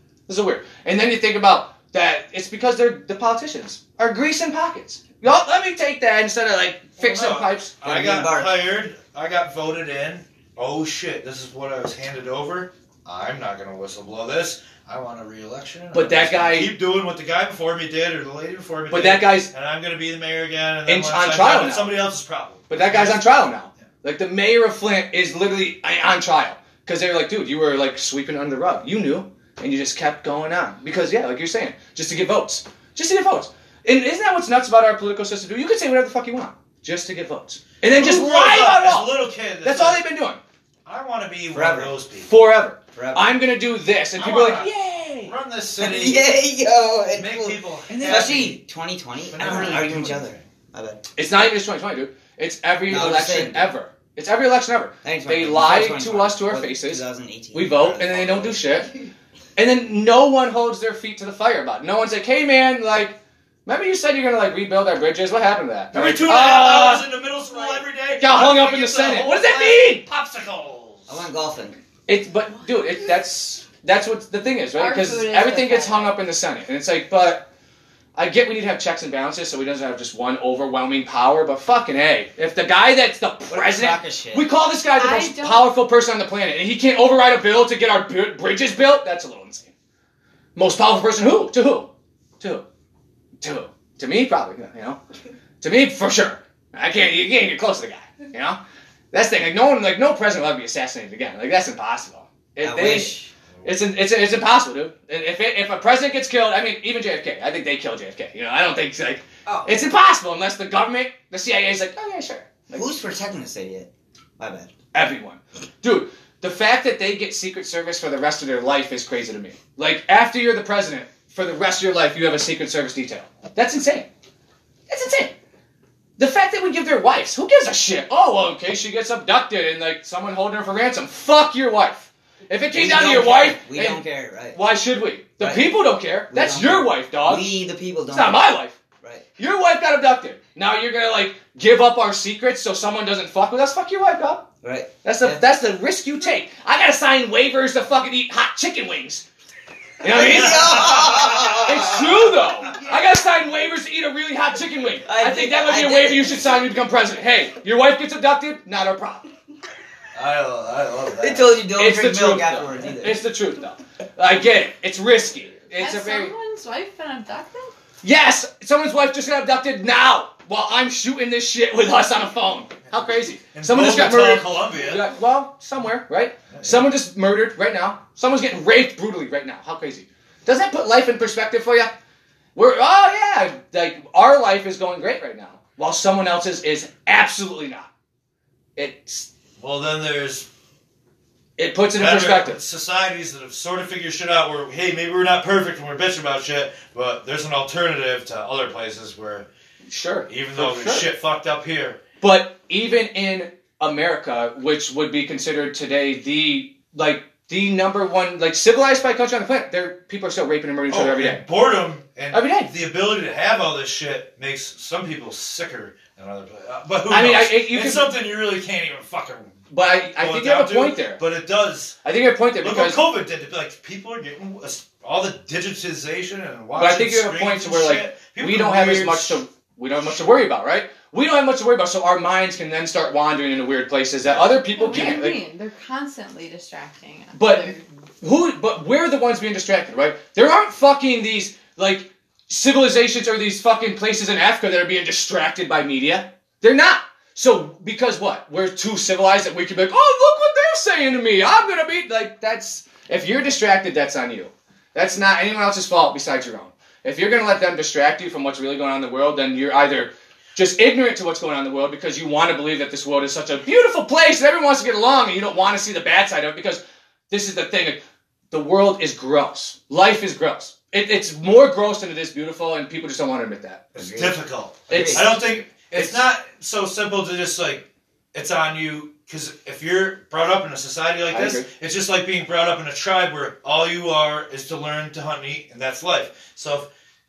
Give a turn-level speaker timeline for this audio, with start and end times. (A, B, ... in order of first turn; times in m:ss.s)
0:00.3-0:07.8 A
0:07.0-0:23.9 B
0:07.8-0:08.7 C
0:15.9-0:16.7 A
0:18.9-0:19.5 A
0:20.9-0:22.0 A
0:22.7-0:40.4 A
0:37.8-0:40.0 B
0:40.8-0:42.3 B
0:41.5-0:42.0 C
0:42.2-0:45.4 A
0:42.9-0:43.4 C
0:44.2-0:46.3 B
0:45.8-0:51.0 C
0:47.1-0:48.6 B
0:47.9-0:48.4 A
0:49.3-0:50.5 B
0:51.2-0:58.9 A
0:52.9-0:53.7 C
0:55.0-0:58.9 C
0:59.6-1:07.1 A
1:05.9-1:11.2 B
1:08.2-1:10.0 A
1:11.1-1:11.8 C
1:12.1-1:17.5 A
1:14.8-1:16.2 D
1:18.2-1:29.7 A
1:23.5-1:24.5 C
1:25.0-1:25.7 D
1:30.6-1:31.9 A
1:33.4-1:35.0 A
1:35.6-1:38.6 A
1:39.1-1:52.9 A
1:42.6-1:43.3 C
1:52.7-1:54.7 C
1:54.9-2:04.1 A
2:04.9-2:05.3 A
2:06.2-2:14.0 A
2:12.7-2:14.6 C
2:14.5-2:17.5 A
2:15.4-2:15.8 C
2:16.3-2:18.5 C
2:18.1-2:18.8 A
2:19.4-2:24.5 A
2:24.6-2:25.4 C
2:25.0-2:29.2 A
2:30.0-2:39.3 A
2:30.0-2:32.8 C
2:30.2-2:32.9 B
2:35.0-2:36.6 C
2:40.1-2:41.6 B
2:41.2-2:43.2 C
2:41.7-2:46.3 A
2:45.8-2:47.7 D
2:48.0-3:01.9 A
2:53.5-2:55.1 B
2:56.5-2:56.9 B
3:02.6-3:07.9 A
3:08.8-3:09.3 A
3:09.6-3:10.5 B
3:11.6-3:12.6 A
3:11.9-3:19.5 B
3:19.9-3:21.1 A
3:20.3-3:22.0 B
3:22.2-3:31.4 A
3:30.9-3:39.6 B
3:32.3-3:32.7 A
3:37.1-3:38.1 A
3:39.7-3:41.2 A
3:40.2-3:42.0 B
3:42.0-3:43.0 A
3:42.6-3:49.4 B
3:46.8-3:55.4 A
3:54.2-3:55.1 B
3:54.7-3:57.8 D
3:57.4-4:28.0 A
4:28.5-4:33.9 A
4:34.0-4:34.4 C
4:34.0-4:46.9 B
4:34.9-4:35.3 C
4:34.9-4:36.2 A
4:41.3-4:41.7 A